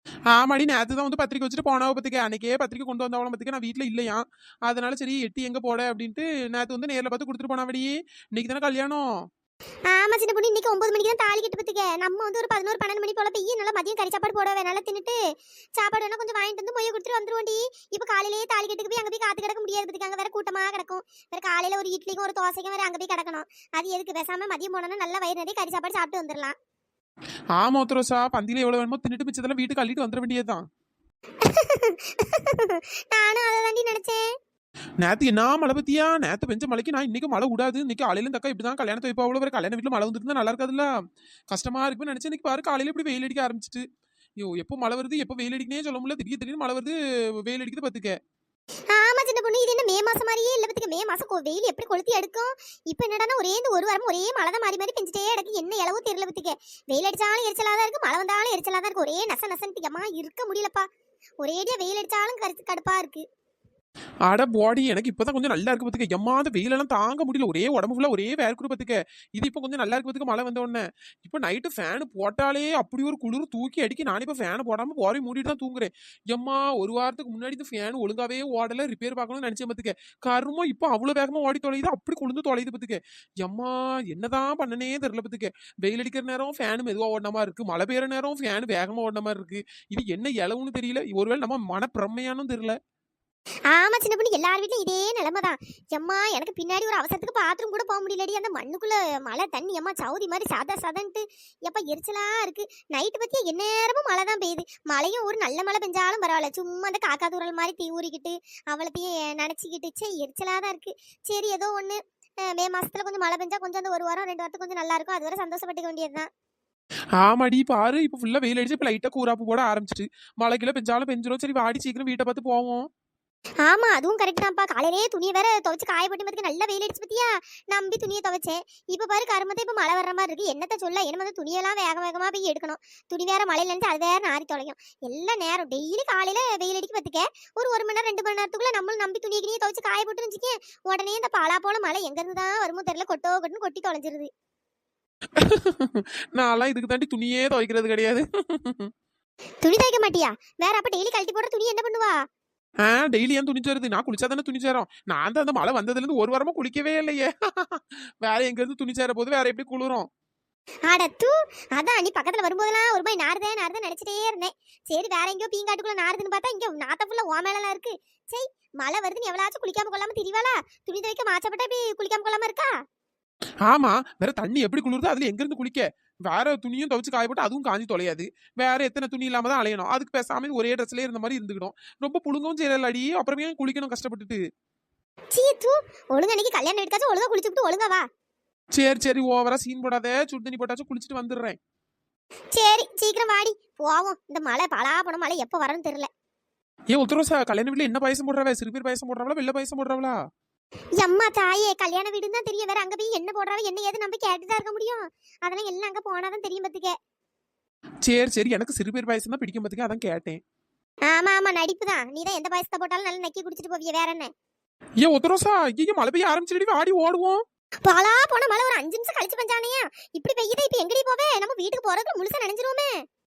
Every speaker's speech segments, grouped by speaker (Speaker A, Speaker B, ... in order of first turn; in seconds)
Speaker A: 0.3-9.1, 27.6-30.6, 35.0-40.9, 41.5-43.8, 44.4-48.1, 64.3-92.8, 117.2-122.9, 145.4-148.9, 152.8-160.1, 173.7-184.4, 188.7-191.6, 196.9-200.2, 208.0-210.4, 215.0-217.4
Speaker B: 9.9-15.2, 15.8-26.6, 31.4-34.2, 48.9-60.9, 61.4-63.2, 93.7-116.3, 123.7-144.3, 149.6-152.2, 160.9-172.8, 185.3-188.1, 192.5-196.1, 201.0-206.9, 211.1-214.3, 217.8-222.9